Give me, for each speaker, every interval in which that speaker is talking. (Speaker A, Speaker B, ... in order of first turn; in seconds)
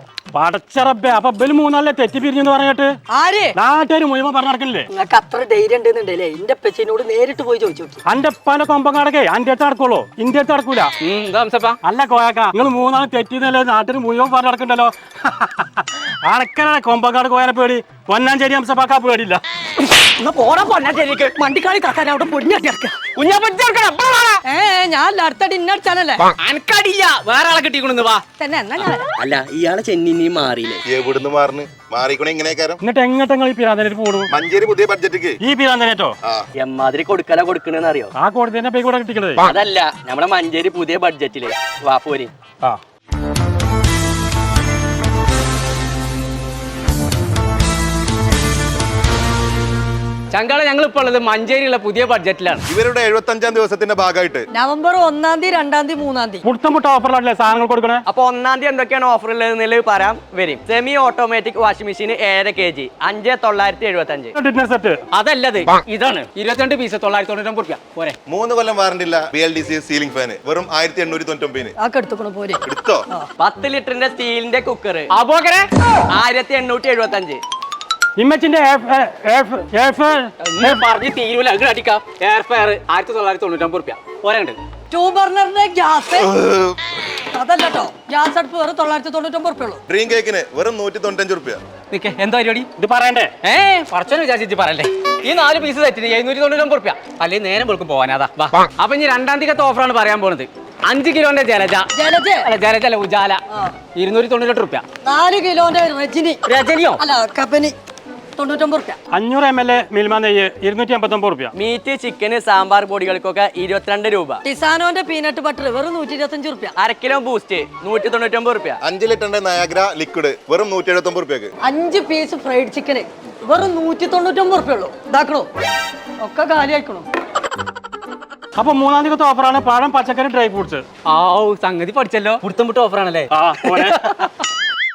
Speaker A: 0.3-2.9, 3.5-4.9, 8.1-10.9, 11.8-19.4, 32.8-34.3, 35.4-36.1, 38.1-39.4, 56.4-58.0, 64.3-65.0, 78.2-80.8, 92.8-93.3, 109.1-111.5, 128.6-130.8, 133.3-134.1
Speaker B: 3.1-3.5, 4.9-8.0, 19.9-23.0, 24.4-26.2, 28.4-29.1, 54.5-56.4, 71.8-73.3, 84.9-86.3, 87.2-89.8, 101.9-102.5, 105.0-106.4, 107.0-107.7, 108.3-109.0, 114.4-116.7, 121.6-125.5, 126.2-127.0
Speaker C: 11.0-11.8, 20.6-21.2, 23.1-24.4, 26.3-28.2, 50.3-52.6, 65.1-68.2, 75.1-75.7, 80.4-84.6, 91.9-92.7, 93.4-103.4, 104.0-104.8, 106.5-107.0, 131.1-134.4
Speaker D: 29.2-30.8, 36.6-38.1, 39.4-42.3, 58.1-64.3, 73.4-75.1, 76.1-77.4, 111.5-114.4, 116.8-118.8
Speaker E: 30.9-32.8, 34.3-35.4, 52.7-54.5, 68.3-71.7, 72.7-73.0, 86.2-86.8, 89.9-91.6, 118.8-121.5